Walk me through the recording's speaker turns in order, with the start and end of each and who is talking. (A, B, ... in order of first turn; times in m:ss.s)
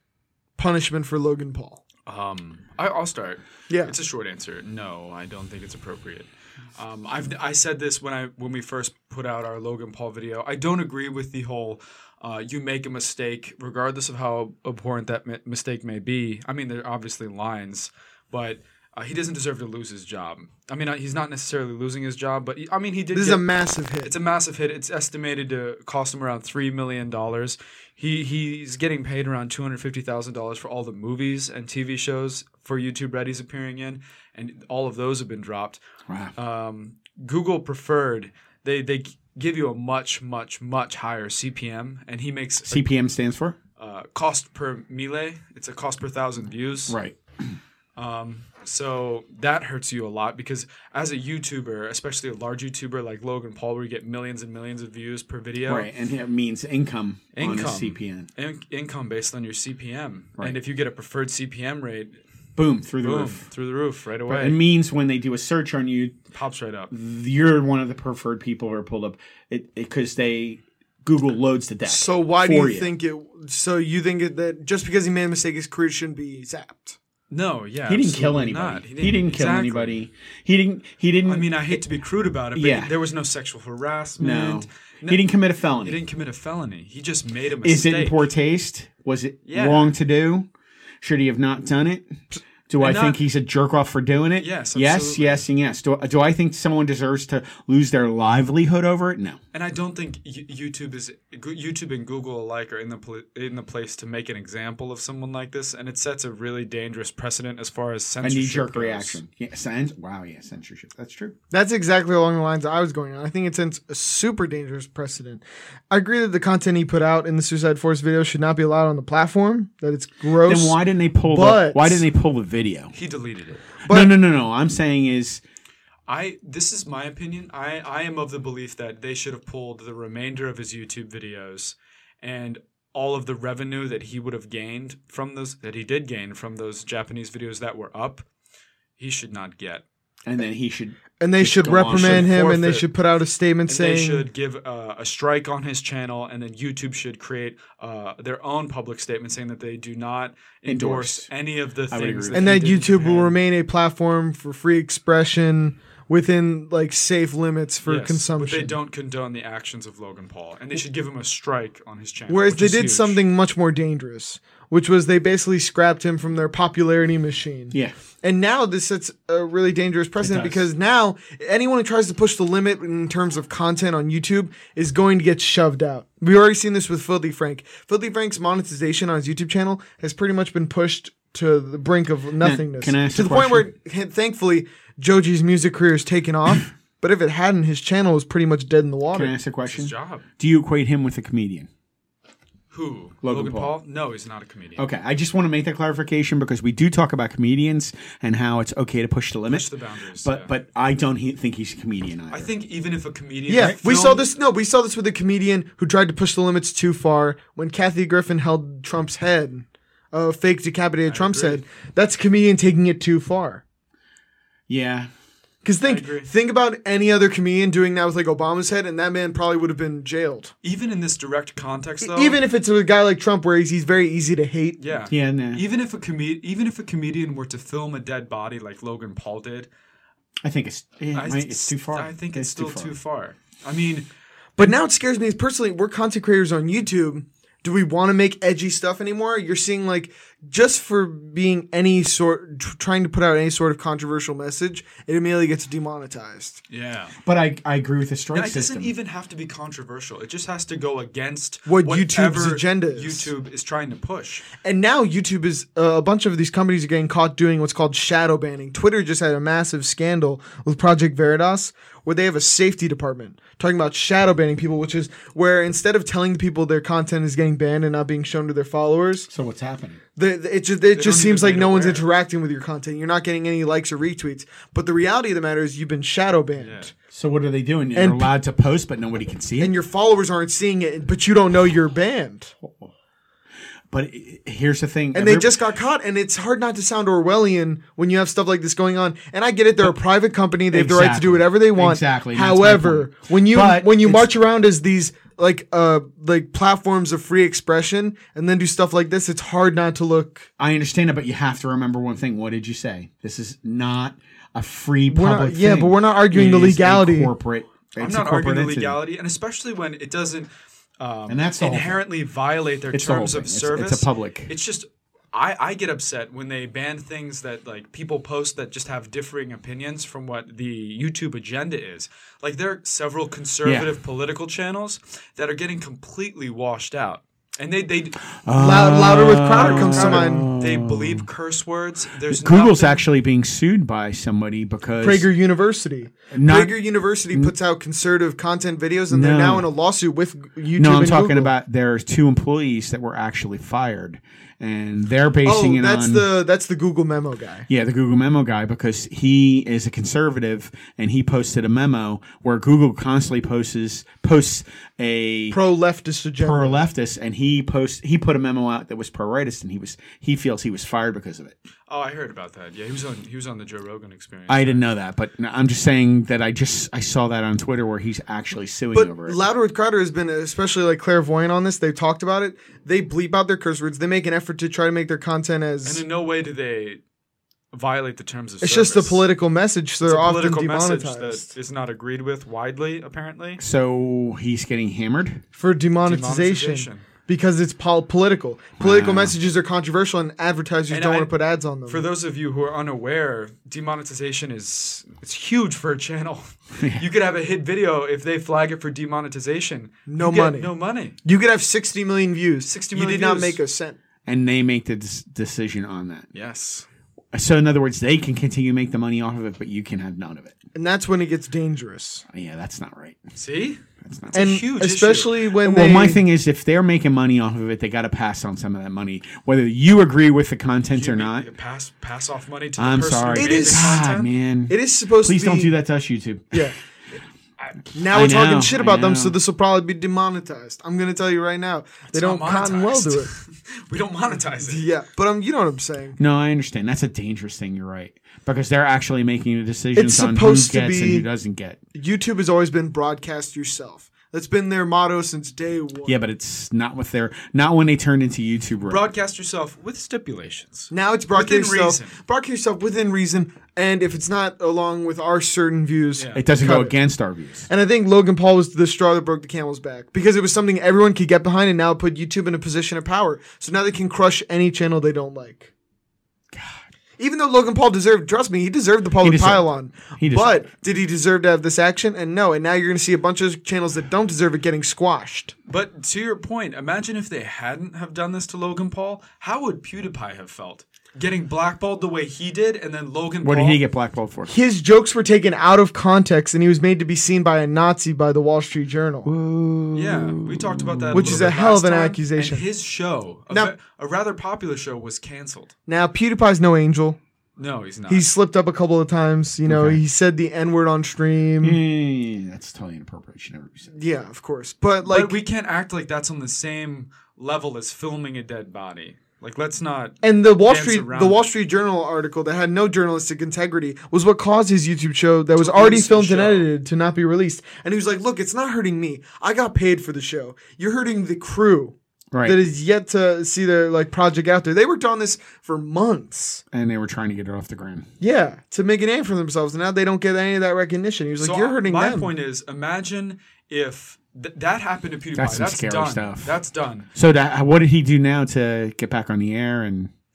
0:00.6-0:01.8 A
0:02.1-0:23.4 B
0:23.1-0:24.1 A
0:24.0-0:35.8 B
0:36.1-0:36.3 C
0:36.4-0:42.9 B
0:42.6-0:43.6 C
0:43.8-0:47.0 B
0:46.9-0:47.6 C
0:48.0-0:55.9 B
0:55.7-0:58.3 C
0:57.3-1:02.2 B
1:02.6-1:03.5 C
1:03.0-1:04.6 B
1:04.3-1:06.2 C
1:06.3-1:06.9 B
1:06.9-1:12.9 C
1:11.9-1:17.0 A
1:17.3-1:20.0 B
1:17.9-1:21.8 C
1:21.2-1:25.2 B
1:22.6-1:22.9 C
1:24.2-1:26.0 C
1:25.8-1:28.2 B
1:27.6-1:30.5 C
1:29.4-1:30.0 B
1:31.0-1:39.4 C
1:32.8-1:33.2 B
1:34.4-1:35.4 B
1:39.5-1:49.2 B
1:48.2-1:51.4 C
1:51.5-2:02.0 A
2:00.4-2:02.9 C
2:02.9-2:03.6 B
2:03.8-2:04.1 A
2:03.9-2:05.4 C
2:06.1-2:18.2 B
2:19.0-2:19.8 B
2:20.2-2:22.4 C
2:21.2-2:24.3 A
2:21.9-2:22.9 B
2:23.7-2:33.4 B
2:30.7-2:31.3 C
2:31.9-2:32.6 C
2:32.3-2:38.8 A
2:37.8-2:43.2 B
2:42.3-3:09.3 A
2:50.2-2:50.6 B
3:02.4-3:03.7 C
3:09.1-3:11.7 C
3:09.7-3:10.3 B
3:12.7-3:14.9 B
3:13.2-3:13.8 C
3:14.8-3:22.5 C
3:19.5-3:20.5 B
3:22.3-3:24.2 B
3:23.5-3:33.6 A
3:31.1-3:31.6 B
3:34.7-3:35.1 C
3:35.6-3:40.5 A
3:35.8-3:36.3 B
3:40.6-3:42.4 B
3:42.0-3:44.9 A
3:44.8-3:49.7 B
3:45.1-3:45.6 C
3:50.4-3:53.0 C
3:51.1-3:54.1 B
3:54.6-4:06.6 A
4:06.7-4:07.2 B
4:07.2-4:08.9 C
4:08.3-4:14.5 B
4:11.7-4:13.3 A
4:14.6-4:29.3 A
4:29.3-4:30.0 C
4:30.2-4:36.9 A
4:30.9-4:32.1 B
4:36.6-4:36.9 B
4:37.1-4:39.7 C
4:38.0-4:38.3 A
4:39.6-4:42.5 A
4:42.6-4:42.9 C
4:43.9-4:45.6 C
4:45.1-5:00.5 A
4:50.7-4:54.3 C
5:00.6-5:09.0 C
5:05.1-5:07.3 A
5:08.0-5:10.5 B
5:11.0-5:28.2 B
5:11.3-5:12.0 C
5:12.9-5:14.5 C
5:23.6-5:23.9 C
5:28.4-5:31.3 C
5:28.5-5:30.5 A
5:29.5-5:33.0 B
5:32.3-5:35.3 C
5:35.0-5:41.5 A
5:36.3-5:36.7 C
5:39.1-5:39.7 C
5:40.8-5:46.3 C
5:45.4-5:47.7 A
5:47.7-5:55.6 C
5:55.5-5:56.8 A
5:56.4-6:01.6 C
6:01.9-6:04.8 B
6:04.5-6:09.4 C
6:08.9-6:16.0 A
6:15.8-6:17.0 B
6:17.7-6:19.2 B
6:18.6-6:21.5 A
6:20.0-6:23.6 B
6:23.6-6:25.4 C
6:25.6-6:32.1 A
6:26.0-6:27.1 B
6:28.8-6:29.4 C
6:30.9-6:31.3 B
6:31.9-6:41.2 B
6:36.8-6:37.0 C
6:40.1-6:40.7 A
6:41.2-6:44.0 A
6:42.6-6:43.6 B
6:44.2-6:46.3 C
6:46.3-6:46.9 B
6:47.3-6:50.6 C
6:50.8-6:52.2 A
6:52.3-6:53.2 C
6:53.4-6:55.4 B
6:54.0-6:54.5 C
6:54.3-6:56.2 A
6:55.6-7:01.5 C
7:00.9-7:04.3 B
7:02.8-7:06.7 C
7:03.3-7:04.1 A
7:04.7-7:05.7 A
7:08.0-7:09.4 C
7:08.0-7:13.3 A
7:12.1-7:14.9 B
7:14.6-7:16.2 A
7:16.2-7:21.8 C
7:20.0-7:21.3 A
7:22.0-7:26.2 A
7:26.1-7:29.1 C
7:28.8-7:32.2 B
7:30.9-7:37.0 A
7:36.2-7:36.4 B
7:36.4-7:37.7 C
7:37.7-7:45.7 A
7:46.5-7:46.8 C
7:47.2-7:55.5 A
7:49.2-7:50.6 C
7:55.7-8:03.8 B
8:03.4-8:04.5 C
8:04.5-8:09.3 A
8:09.2-8:11.5 C
8:09.9-8:15.7 B
8:11.1-8:12.7 A
8:15.9-8:17.2 A
8:17.6-8:18.3 B
8:18.1-8:21.8 A
8:19.7-8:20.0 C
8:21.6-8:23.9 C
8:23.9-8:25.4 A
8:25.0-8:31.5 B
8:30.2-8:46.6 A
8:35.6-8:36.7 B
8:42.3-8:42.6 C
8:46.7-8:48.1 C
8:48.2-8:52.3 A
8:51.4-8:57.1 B
8:55.4-8:56.6 C
8:57.1-9:00.1 C